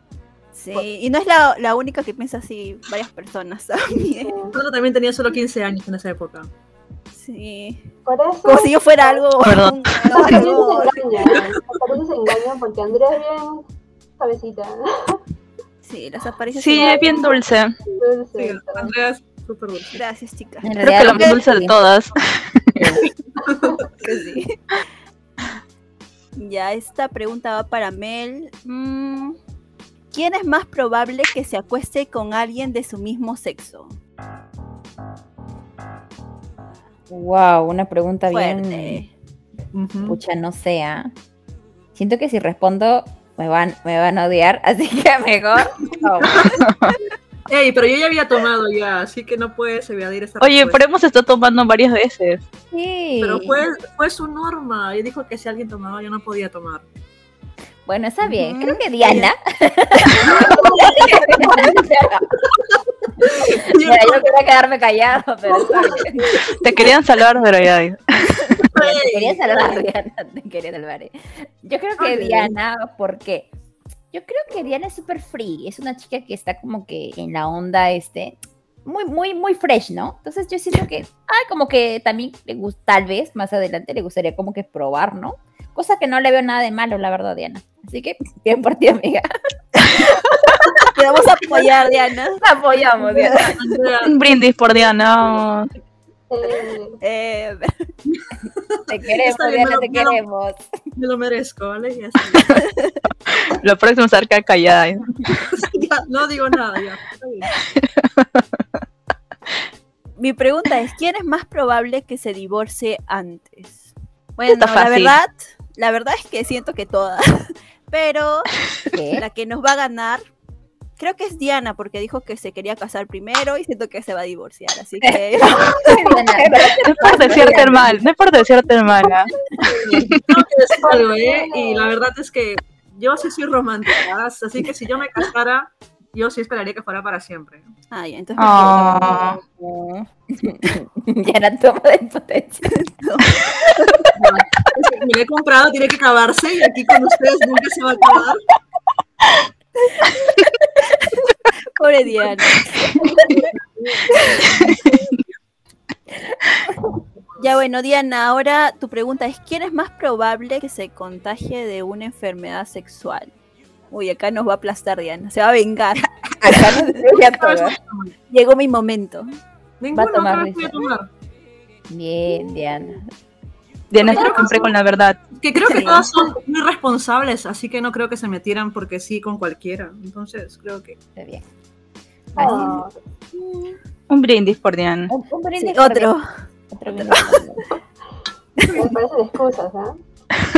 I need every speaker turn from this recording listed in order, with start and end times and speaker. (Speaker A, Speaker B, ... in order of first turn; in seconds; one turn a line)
Speaker A: 0.5-4.4
Speaker B: 4.0-4.5
Speaker C: 4.5-6.5
Speaker A: 7.1-7.9
Speaker B: 8.1-9.2
Speaker A: 8.4-11.4
Speaker D: 9.4-9.9
Speaker B: 10.1-13.7
Speaker C: 11.3-11.8
Speaker B: 14.2-15.2
Speaker A: 15.8-17.2
Speaker D: 16.5-17.7
Speaker B: 16.7-17.3
Speaker B: 18.0-18.9
Speaker C: 18.4-20.0
Speaker A: 19.9-21.4
Speaker E: 20.6-21.8
Speaker D: 20.8-22.9
Speaker E: 22.8-23.0
Speaker C: 23.4-23.8
Speaker A: 24.0-24.6
Speaker A: 26.4-29.4
Speaker A: 30.1-34.0
Speaker E: 37.1-39.0
Speaker A: 38.3-39.1
Speaker C: 39.7-40.2
Speaker E: 40.0-41.1
Speaker E: 41.9-46.9
Speaker C: 45.9-46.6
Speaker C: 47.5-50.8
Speaker D: 50.4-52.4
Speaker E: 52.7-53.6
Speaker C: 53.2-56.8
Speaker E: 57.9-62.4
Speaker A: 58.3-59.3
Speaker A: 60.1-60.5
Speaker C: 60.2-61.5
Speaker B: 60.5-60.9
Speaker C: 63.2-64.3
Speaker E: 63.2-66.3
Speaker C: 65.6-66.6
Speaker D: 66.6-68.2
Speaker C: 68.7-69.3
Speaker E: 68.7-73.5
Speaker C: 72.0-72.5
Speaker E: 74.1-89.3
Speaker A: 90.8-92.4
Speaker E: 92.4-93.6
Speaker C: 93.0-94.2
Speaker D: 94.0-95.7
Speaker B: 96.3-97.0
Speaker A: 97.0-97.9
Speaker C: 98.1-100.2
Speaker E: 98.9-100.6
Speaker C: 100.9-102.6
Speaker D: 103.5-105.1
Speaker C: 105.4-107.5
Speaker D: 107.8-108.4
Speaker A: 110.2-118.5
Speaker D: 114.5-115.2
Speaker E: 118.9-119.2
Speaker A: 119.1-120.2
Speaker A: 121.0-126.1
Speaker E: 125.0-127.9
Speaker D: 126.8-129.3
Speaker E: 129.6-130.1
Speaker B: 129.7-130.1
Speaker C: 130.0-137.7
Speaker B: 130.8-131.9
Speaker A: 137.9-139.4
Speaker D: 138.4-139.4
Speaker E: 138.6-142.8
Speaker A: 142.7-144.0
Speaker C: 144.1-148.4
Speaker A: 151.7-152.6
Speaker C: 153.8-154.8
Speaker A: 157.4-163.3
Speaker A: 163.9-166.7
Speaker E: 166.3-167.8
Speaker C: 167.3-168.1
Speaker A: 168.3-169.3
Speaker C: 169.8-171.1
Speaker E: 169.9-170.8
Speaker E: 171.9-173.1
Speaker D: 173.9-175.2
Speaker C: 174.0-174.7
Speaker B: 174.1-174.7
Speaker C: 175.3-181.0
Speaker A: 175.6-176.1
Speaker E: 181.2-181.5
Speaker E: 182.3-182.8
Speaker B: 182.4-183.0
Speaker A: 183.3-183.8
Speaker D: 184.1-185.1
Speaker E: 185.1-186.1
Speaker A: 185.6-186.2
Speaker E: 186.7-187.7
Speaker A: 186.9-187.4
Speaker C: 188.6-188.9
Speaker B: 188.7-189.9